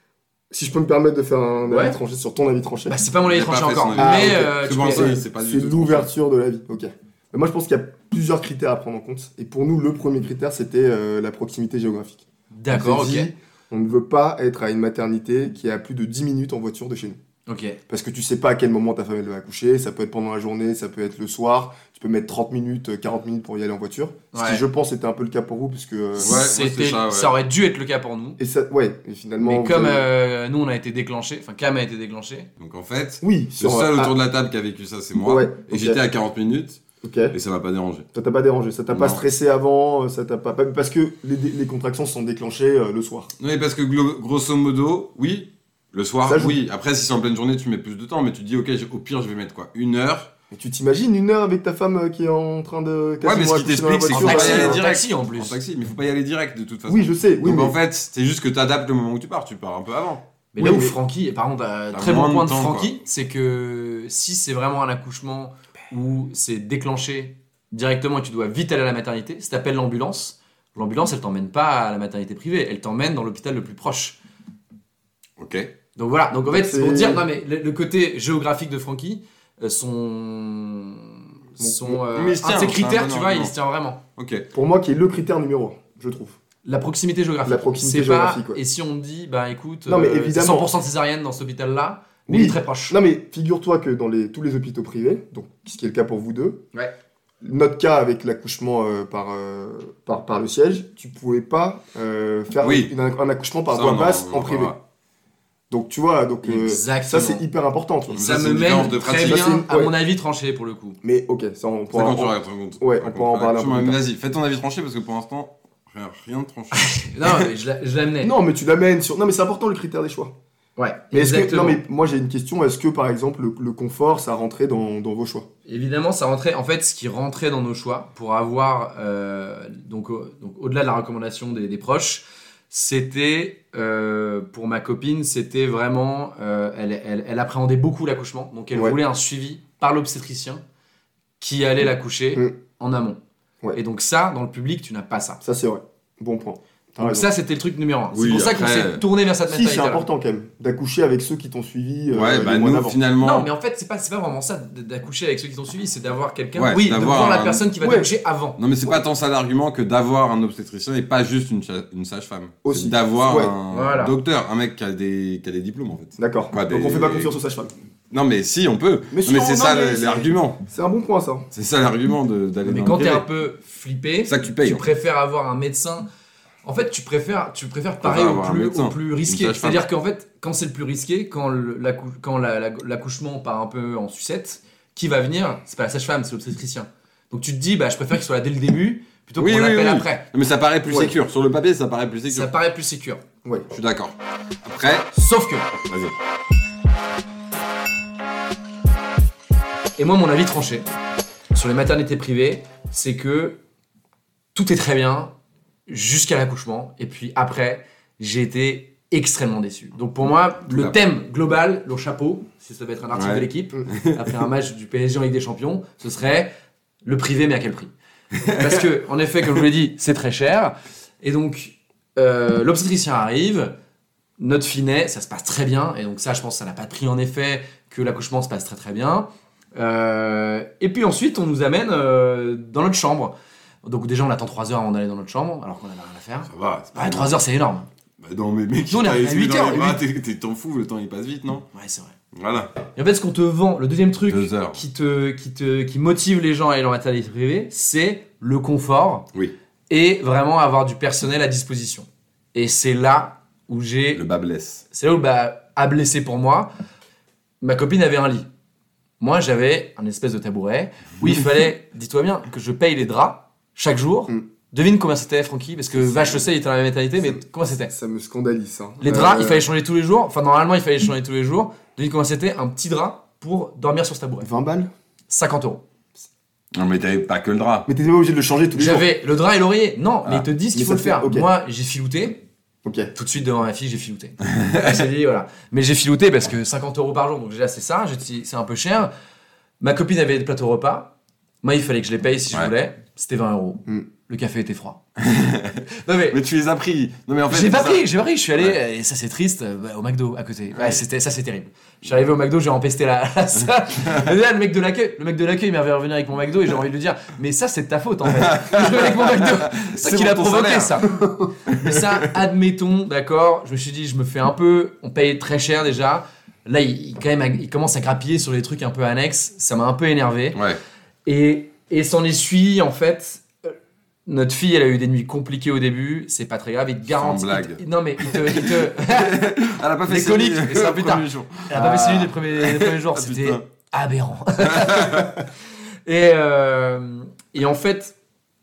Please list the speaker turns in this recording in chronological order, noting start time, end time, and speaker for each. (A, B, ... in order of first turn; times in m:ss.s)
0:00.5-0:03.0 A
0:01.7-0:02.0 B
0:02.9-0:05.2 B
0:03.2-0:06.1 C
0:03.9-0:17.2 A
0:12.5-0:13.3 B
0:17.5-0:17.8 B
0:17.9-0:26.3 A
0:24.3-0:24.6 B
0:26.2-0:27.3 C
0:26.2-0:28.4 B
0:28.4-0:30.0 A
0:29.4-0:32.5 B
0:32.6-0:36.8 C
0:33.2-0:34.1 A
0:35.2-0:36.0 A
0:37.0-0:37.3 A
0:37.3-0:38.0 C
0:38.1-0:43.3 A
0:38.9-0:39.2 C
0:43.4-0:50.3 C
0:46.2-0:46.6 A
0:50.5-0:54.8 A
0:53.2-1:00.2 C
0:54.1-0:55.6 B
0:56.9-0:57.8 A
1:00.5-1:14.2 B
1:00.6-1:01.0 A
1:01.9-1:02.9 C
1:15.4-1:15.7 C
1:16.0-1:24.0 B
1:16.5-1:17.2 A
1:21.6-1:22.0 A
1:22.1-1:23.5 C
1:24.2-1:24.5 C
1:24.5-1:26.4 A
1:26.6-1:33.0 B
1:27.4-1:28.6 A
1:29.9-1:30.7 A
1:32.3-1:36.6 A
1:37.4-1:44.7 A
1:42.6-1:42.9 C
1:43.7-1:44.8 C
1:45.7-1:48.2 A
1:46.4-1:47.4 B
1:48.1-1:49.4 C
1:48.1-1:51.0 B
1:49.1-1:49.9 A
1:51.0-1:54.0 A
1:51.9-1:57.4 C
1:56.7-1:58.3 B
1:58.2-2:00.3 A
2:00.8-2:01.8 B
2:01.1-2:05.5 A
2:05.7-2:20.6 B
2:21.4-2:23.2 B
2:23.7-2:25.4 B
2:25.4-2:27.3 A
2:27.0-2:30.0 B
2:28.1-2:29.0 C
2:29.5-2:33.0 A
2:32.1-2:33.5 C
2:33.2-2:38.6 B
2:36.6-2:37.7 C
2:37.8-2:38.1 A
2:38.6-2:47.3 C
2:42.6-2:43.5 A
2:43.7-2:44.1 B
2:46.2-2:47.7 A
2:48.1-2:50.6 C
2:49.1-2:51.5 A
2:51.5-2:53.2 C
2:52.6-2:56.1 B
2:54.3-2:54.8 C
2:56.6-3:10.2 B
2:58.0-2:59.9 C
3:09.4-3:12.5 C
3:10.8-3:11.1 A
3:12.3-3:13.2 B
3:13.7-3:15.1 C
3:15.1-3:15.7 B
3:15.8-3:16.1 C
3:20.0-3:20.9 B
3:21.5-3:23.6 B
3:24.5-3:25.3 B
3:25.9-3:36.5 B
3:30.7-3:31.0 C
3:33.1-3:34.3 C
3:37.0-3:43.7 B
3:38.4-3:38.8 C
3:44.4-3:57.9 B
3:56.5-3:57.4 C
3:58.2-4:01.6 C
3:58.9-4:00.0 B
4:01.7-4:02.1 B
4:02.3-4:02.7 C
4:02.9-4:09.3 B
4:04.3-4:04.8 C
4:09.9-4:14.2 B
4:14.1-4:14.8 C
4:14.9-4:16.7 B
4:17.6-4:18.5 B
4:19.2-4:27.9 B
4:26.0-4:26.4 A
4:27.9-4:29.7 A
4:29.0-4:34.5 B
4:34.4-4:34.9 A
4:35.3-4:35.8 B
4:36.7-4:37.9 C
4:37.9-4:39.1 A
4:38.7-4:42.4 B
4:40.7-4:41.5 A
4:42.8-4:43.1 A
4:43.1-4:49.1 B
4:44.6-4:45.0 C
4:49.8-4:55.0 B
4:55.2-4:58.8 C
4:56.0-4:56.4 B
4:57.5-5:20.6 B
5:00.7-5:01.0 C
5:08.3-5:11.1 C
5:11.7-5:12.3 C
5:21.2-5:23.5 B
5:24.2-5:29.5 B
5:27.1-5:33.6 C
5:30.0-5:35.4 B
5:34.7-5:35.4 C
5:36.0-5:38.1 B